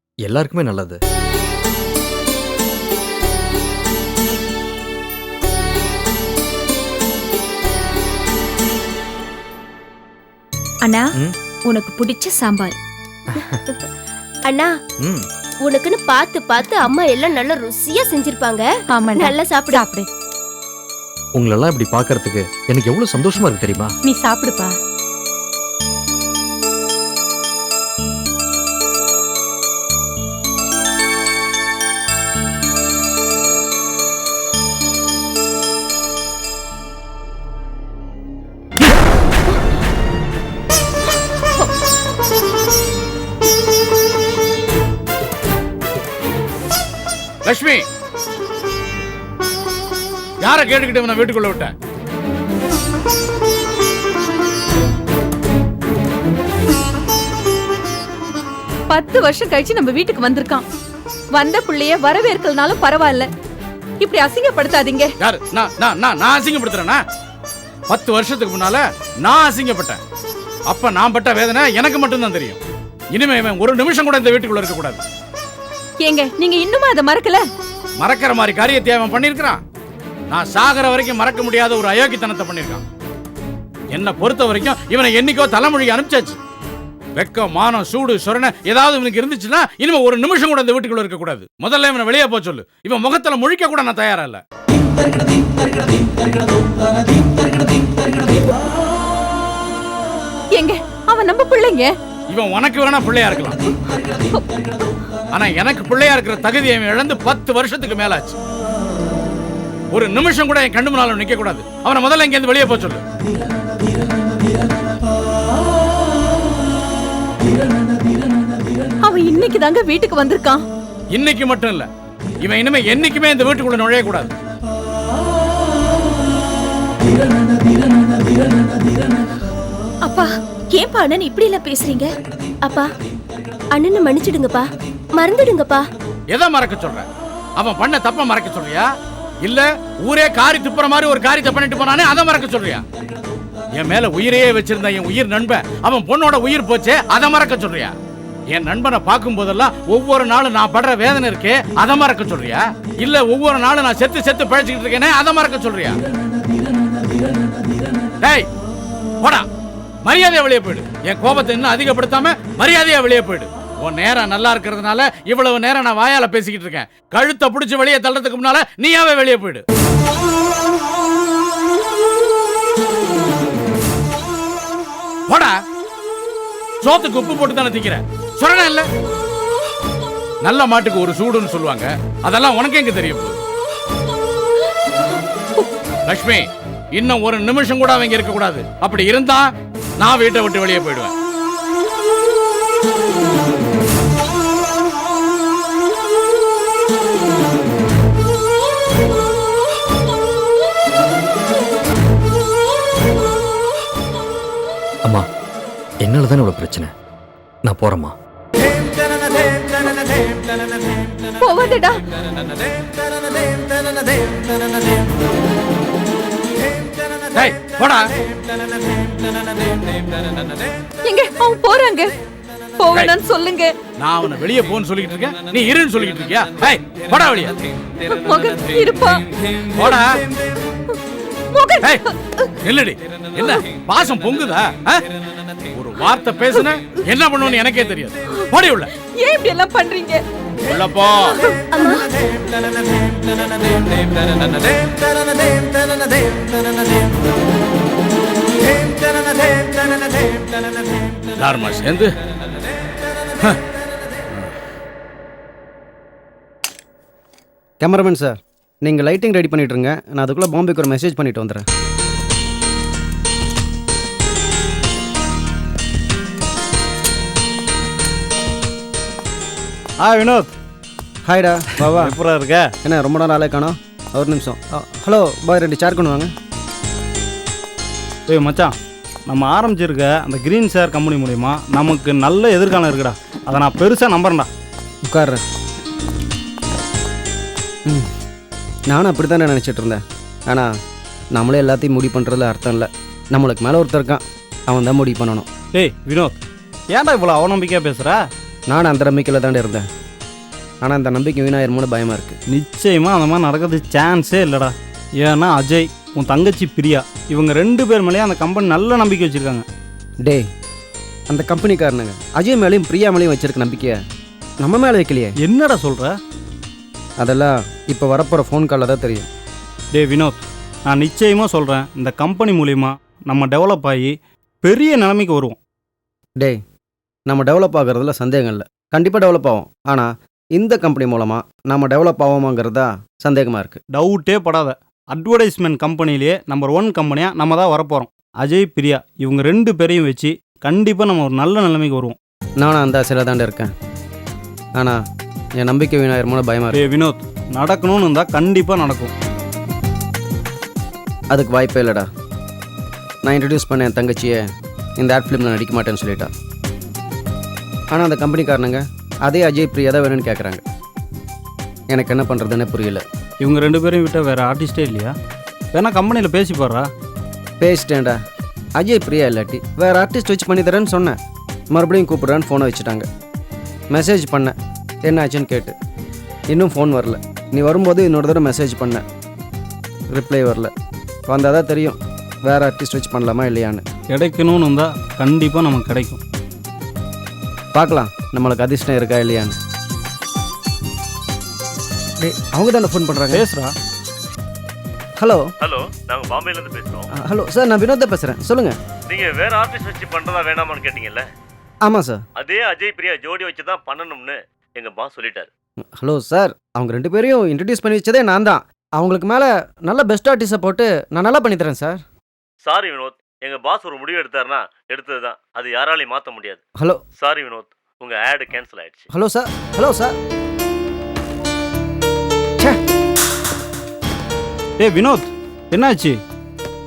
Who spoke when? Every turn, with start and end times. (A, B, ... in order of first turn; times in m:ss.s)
0:00.2-0:01.0 A
0:11.7-0:12.7 B
0:14.4-0:14.7 C
0:15.6-0:19.8 C
0:18.9-0:20.1 D
0:21.4-0:23.9 A
0:24.0-0:24.7 D
0:47.4-0:47.8 E
0:50.4-0:51.7 E
0:58.9-1:00.6 D
1:01.3-1:03.3 D
1:04.0-1:05.1 D
1:05.2-1:07.0 E
1:07.9-1:10.0 E
1:10.7-1:12.6 E
1:13.1-1:15.0 E
1:16.0-1:17.4 D
1:18.0-1:19.6 E
1:20.3-1:22.8 E
1:23.9-1:26.4 E
1:27.2-1:34.4 E
1:40.5-1:41.9 D
1:42.3-1:43.6 E
1:45.3-1:48.4 E
1:49.9-1:53.0 E
1:59.0-2:00.6 D
2:01.1-2:01.9 E
2:02.4-2:04.3 E
2:10.0-2:12.1 B
2:12.6-2:12.9 C
2:13.7-2:15.8 C
2:16.3-2:17.0 E
2:17.6-2:18.9 E
2:19.4-2:22.8 E
2:23.8-2:27.9 E
2:28.5-2:36.0 E
2:39.2-2:39.5 E
2:40.0-2:49.6 E
2:55.3-2:55.6 E
2:56.8-2:58.9 E
3:00.4-3:03.4 E
3:06.1-3:09.5 E
3:10.0-3:11.1 E
3:26.0-3:26.9 A
3:27.6-3:28.1 A
3:31.4-3:32.0 D
3:37.3-3:38.0 E
3:41.0-3:42.1 D
3:42.8-3:43.7 D
3:44.0-3:47.5 E
3:48.1-3:49.2 D
3:49.7-3:50.0 E
3:51.5-3:52.4 D
3:52.6-3:55.0 E
3:55.7-3:58.9 E
3:59.2-4:00.2 D
4:00.7-4:01.4 E
4:01.7-4:02.0 C
4:11.4-4:12.1 E
4:17.8-4:21.6 F
4:30.0-4:30.5 G
4:31.2-4:32.1 F
4:31.8-4:32.7 G
4:32.8-4:36.3 F
4:38.3-4:38.7 G
4:39.3-4:44.5 G
4:45.1-4:45.4 F
4:48.9-4:50.7 F
4:51.3-4:55.4 F
4:55.7-4:56.4 G
4:56.9-4:58.2 G
4:58.7-4:59.8 F
5:00.8-5:02.4 F
5:02.5-5:09.6 G
5:11.3-5:14.0 F
5:14.6-5:15.4 F
5:15.4-5:16.2 G
5:17.2-5:19.3 F
5:19.9-5:25.6 G
5:27.3-5:33.8 F
5:33.9-5:42.2 G
5:42.6-5:43.7 F
5:45.6-5:46.8 F
5:46.7-5:49.1 G
5:51.3-5:52.0 F
5:53.2-5:54.4 F
5:55.0-5:56.3 F
5:57.9-6:00.6 F
6:01.9-6:03.0 F
6:03.4-6:05.1 G
6:05.7-6:06.9 G
6:07.6-6:08.2 F
6:08.8-6:11.2 F
6:11.7-6:13.0 F
6:13.9-6:15.7 F
6:16.5-6:19.0 F
6:20.1-6:20.7 F
6:21.3-6:23.8 F
6:24.1-6:26.2 G
6:27.7-6:29.6 F
6:32.2-6:33.4 F
6:33.3-6:33.7 G
6:35.2-6:35.4 F
6:35.6-6:37.1 H
6:37.1-6:38.8 F
6:39.1-6:41.3 H
6:41.8-6:42.2 F
6:42.4-6:45.5 H
6:45.9-6:52.0 F
6:52.6-6:56.6 H
6:57.2-6:59.1 H
6:59.1-7:00.1 F
7:04.8-7:06.2 G